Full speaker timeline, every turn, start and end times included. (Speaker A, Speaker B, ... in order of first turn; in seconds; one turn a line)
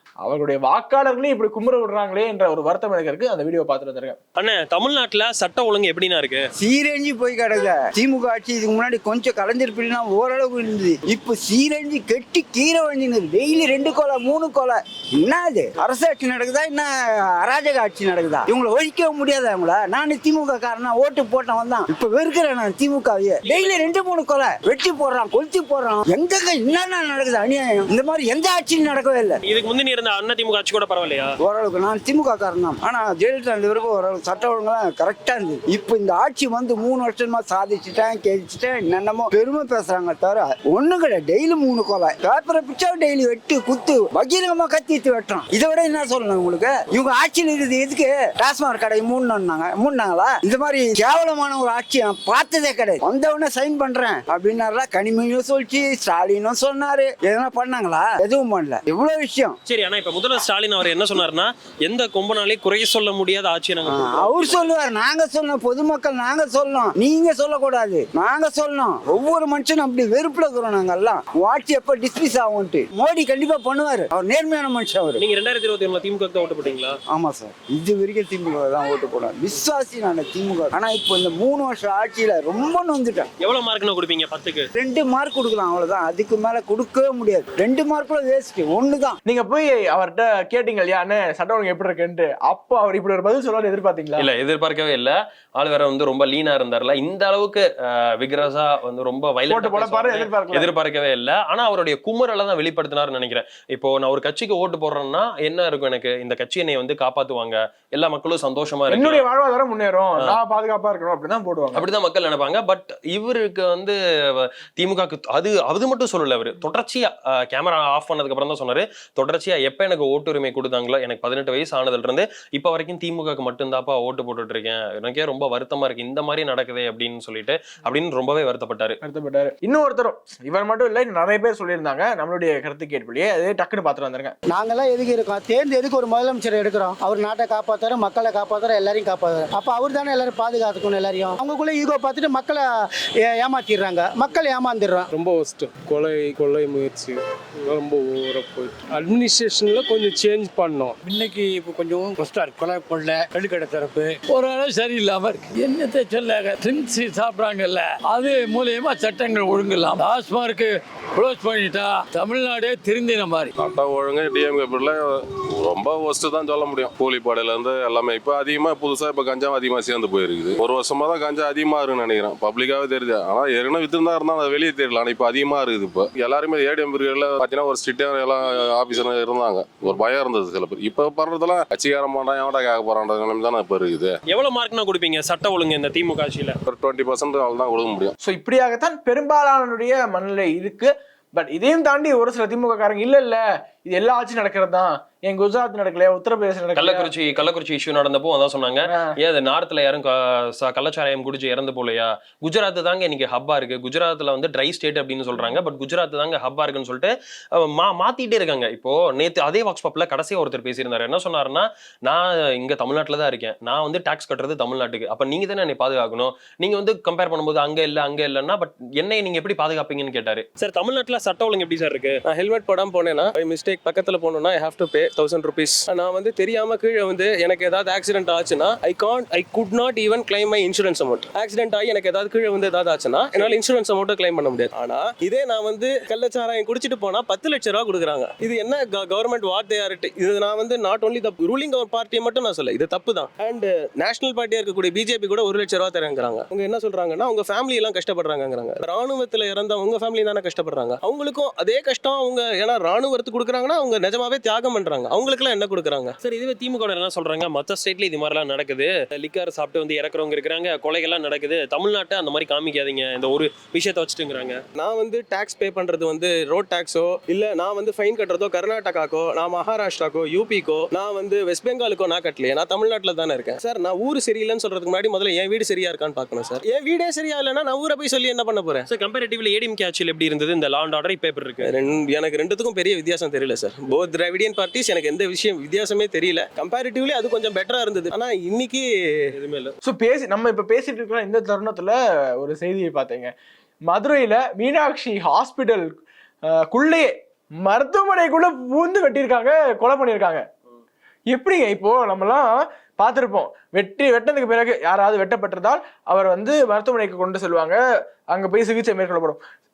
Speaker A: 0.2-4.2
Speaker B: 4.4-6.5
Speaker C: 6.6-29.4
Speaker B: 23.5-23.9
Speaker B: 29.5-31.3
Speaker C: 31.4-59.6
Speaker B: 59.7-64.6
Speaker C: 63.9-75.2
Speaker B: 75.2-77.0
Speaker C: 77.1-83.3
Speaker B: 83.4-84.7
Speaker C: 84.7-89.2
Speaker A: 89.3-94.3
Speaker B: 94.2-109.2
Speaker A: 99.5-100.7
Speaker A: 108.9-111.8
Speaker B: 111.8-129.0
Speaker A: 129.0-134.4
Speaker D: 134.5-142.7
Speaker D: 143.2-145.1
Speaker E: 145.1-151.0
Speaker F: 151.0-163.5
Speaker G: 163.6-184.2
Speaker B: 184.3-186.6
Speaker G: 186.7-188.1
Speaker A: 188.2-197.1
Speaker B: 196.8-222.2
Speaker H: 222.3-256.2
Speaker B: 256.2-264.6
Speaker H: 264.7-278.9
Speaker B: 278.9-281.7
Speaker H: 281.6-288.8
Speaker B: 289.4-289.7
Speaker A: 289.8-293.3
Speaker A: 293.9-295.9
Speaker A: 296.5-300.4
Speaker A: 301.3-307.8
Speaker A: 308.3-309.4